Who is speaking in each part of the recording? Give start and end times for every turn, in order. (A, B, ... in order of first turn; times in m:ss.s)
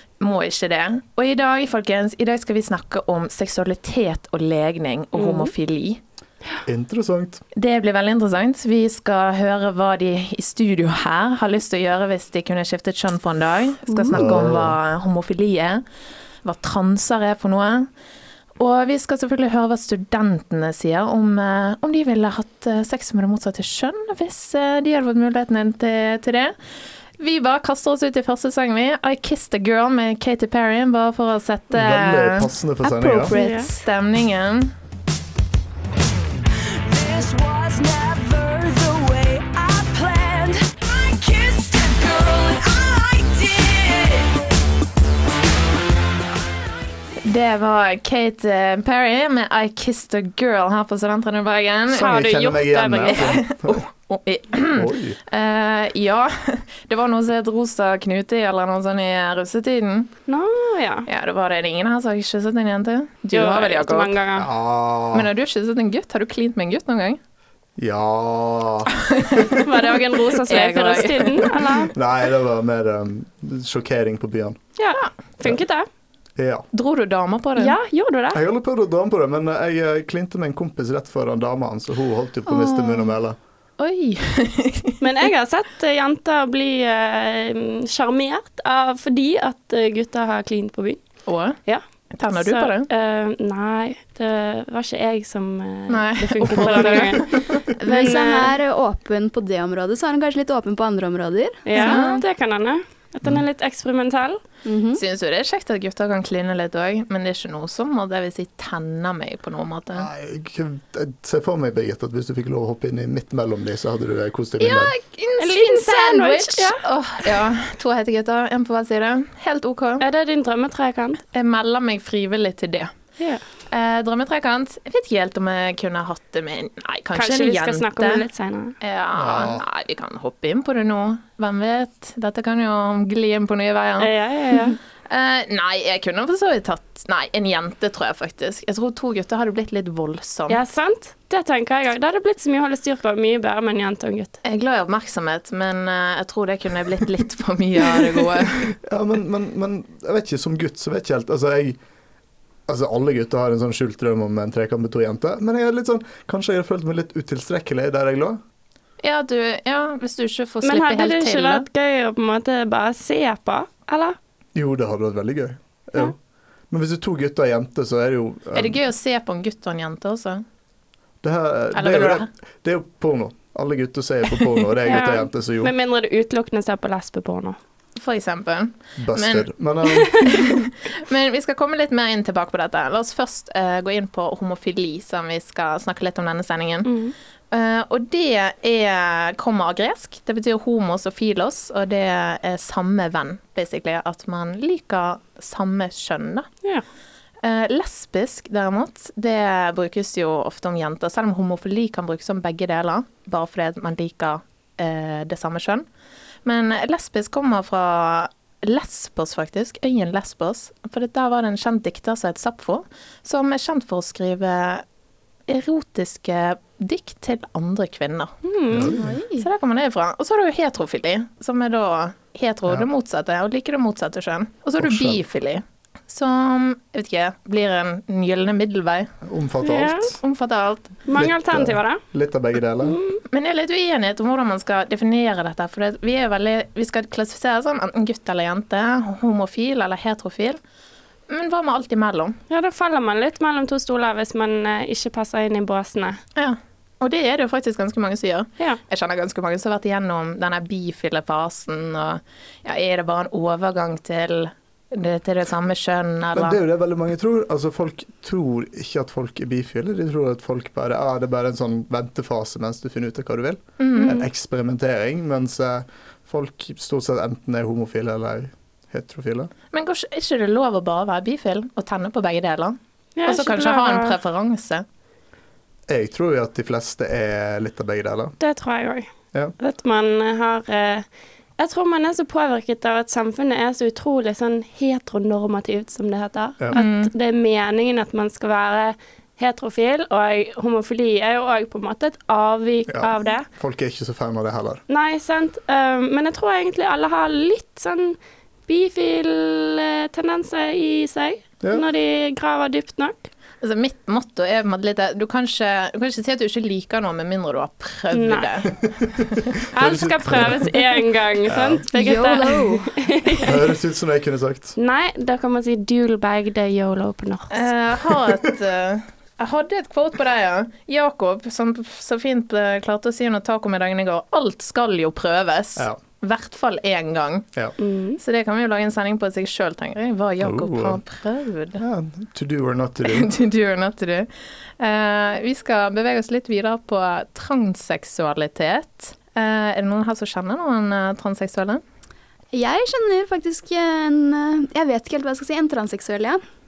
0:00.2-0:06.0 A
0:05.2-0:05.5 B
0:06.7-0:07.4 C
0:07.6-0:15.8 A
0:14.1-0:14.8 C
0:16.4-0:17.9 A
0:18.6-0:26.6 A
0:27.2-0:32.5 A
0:31.7-0:33.3 C
0:32.8-0:33.5 D
0:33.3-0:34.7 A
0:33.4-0:33.7 B
0:37.0-0:40.6 E
0:41.3-0:44.1 E
0:47.2-0:52.1 A
0:51.9-0:53.8 C
0:51.9-0:53.4 B
0:53.1-1:00.1 A
0:54.7-0:55.2 C
1:00.3-1:01.1 B
1:01.1-1:04.1 A
1:03.3-1:04.5 B
1:04.4-1:05.3 C
1:05.1-1:07.2 A
1:07.8-1:09.4 C
1:09.1-1:11.7 A
1:09.6-1:11.9 B
1:11.9-1:14.6 C
1:14.8-1:15.9 B
1:16.4-1:16.7 C
1:16.7-1:17.7 A
1:17.6-1:18.4 B
1:18.3-1:23.4 C
1:23.8-1:25.0 A
1:25.0-1:38.5 B
1:31.3-1:31.6 A
1:32.1-1:32.9 A
1:35.9-1:37.5 A
1:37.8-1:42.0 D
1:41.6-1:44.4 B
1:41.8-1:42.2 A
1:44.6-1:45.0 D
1:45.0-1:50.1 A
1:49.9-1:54.9 C
1:54.6-2:00.0 A
1:55.4-1:56.8 B
2:00.0-2:01.2 B
2:01.3-2:02.9 A
2:03.7-2:08.2 A
2:07.2-2:08.8 B
2:08.8-2:14.1 A
2:09.2-2:09.6 C
2:14.0-2:14.8 B
2:15.1-2:20.6 A
2:20.5-2:24.4 B
2:24.4-2:28.7 A
2:28.6-2:31.8 C
2:32.7-2:38.4 C
2:39.0-2:41.7 A
2:40.6-2:44.2 B
2:44.6-2:46.2 C
2:46.7-2:48.8 C
2:48.6-2:50.4 A
2:51.2-2:55.7 C
2:51.8-2:52.3 A
2:54.9-2:57.6 B
2:58.0-2:59.5 A
2:59.0-3:00.3 C
3:00.2-3:06.9 A
3:06.9-3:07.2 B
3:07.5-3:16.5 A
3:17.4-3:25.9 A
3:26.4-3:34.8 A
3:35.5-3:38.3 A
3:38.4-3:39.0 B
3:38.7-3:39.1 C
3:39.0-3:39.5 D
3:39.4-3:49.1 A
3:44.8-3:45.2 C
3:49.2-3:50.2 C
3:49.6-3:50.1 B
3:50.2-3:51.0 A
3:51.1-3:52.0 B
3:51.1-3:53.0 C
3:52.8-3:53.2 B
3:53.3-4:00.6 A
4:01.3-4:02.4 A
4:02.5-4:06.2 B
4:06.4-4:16.6 A
4:16.3-4:29.5 C
4:23.8-4:24.2 A
4:29.7-4:34.8 A
4:33.2-4:34.2 B
4:35.9-4:38.4 C
4:38.4-4:39.1 B
4:39.6-4:41.1 B
4:41.6-4:53.5 B
4:46.7-4:47.1 A
4:52.9-4:54.8 C
4:54.9-5:03.3 B
5:03.6-5:08.7 A
5:08.1-5:08.5 B
5:08.8-5:10.7 C
5:09.8-5:13.5 B
5:11.4-5:11.8 C
5:11.9-5:13.0 D
5:13.4-5:14.8 C
5:14.8-5:17.7 B
5:17.5-5:27.5 A
5:27.8-5:28.2 B
5:28.2-5:31.8 A
5:30.4-5:31.0 C
5:31.8-5:33.3 C
5:33.1-5:34.3 A
5:34.8-5:41.8 A
5:42.5-5:46.4 D